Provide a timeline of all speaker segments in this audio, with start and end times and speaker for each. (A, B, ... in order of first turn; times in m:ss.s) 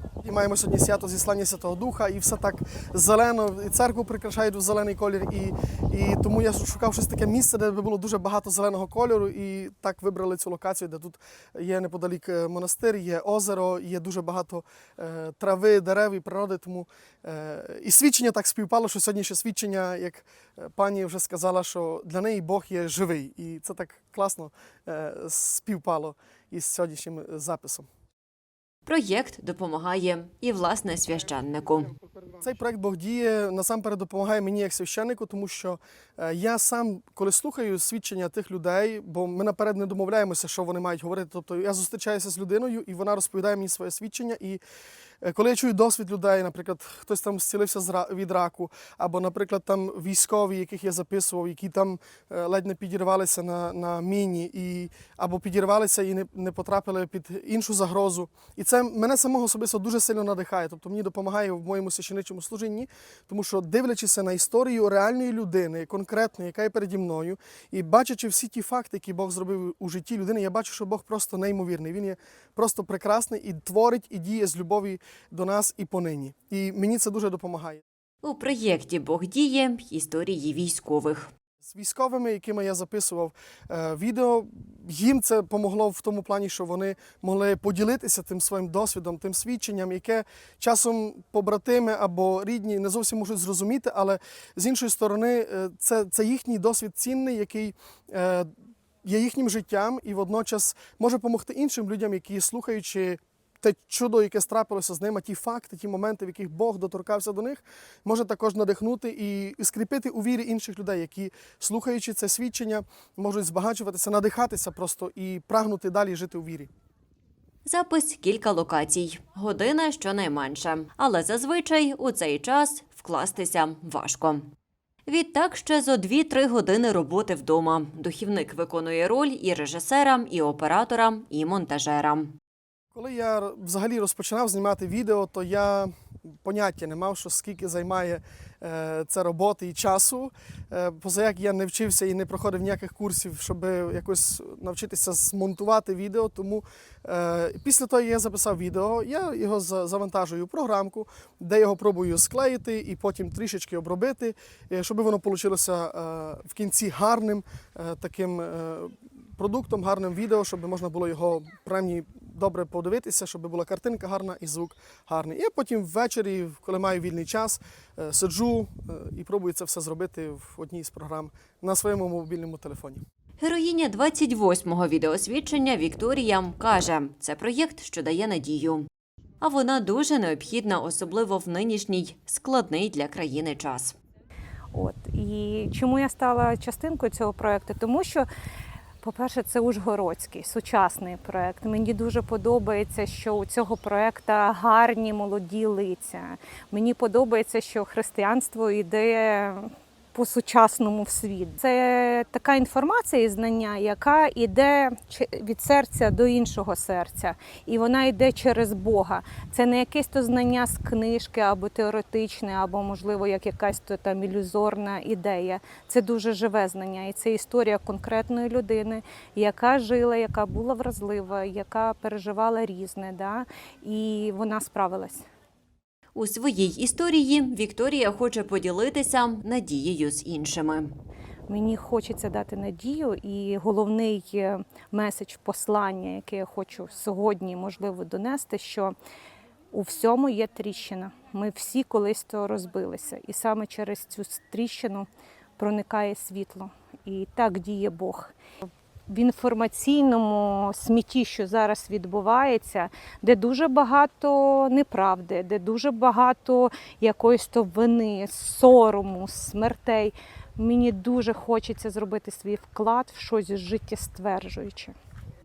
0:00.2-0:27.8 A
0:28.8-0:31.9 B
0:32.4-0:44.6 A
0:45.2-1:17.8 A
1:18.2-1:21.3 B
1:21.6-1:38.5 A
1:39.0-1:56.7 A
1:57.6-2:04.4 B
2:05.0-2:12.3 B
2:12.9-2:53.0 A
2:53.4-2:58.8 B
2:59.4-3:04.0 B
3:04.7-3:08.3 C
3:09.0-3:45.2 C
3:46.1-3:50.9 B
3:51.5-3:58.9 C
3:59.7-4:05.1 C
4:05.6-4:08.3 C
4:09.1-4:24.9 C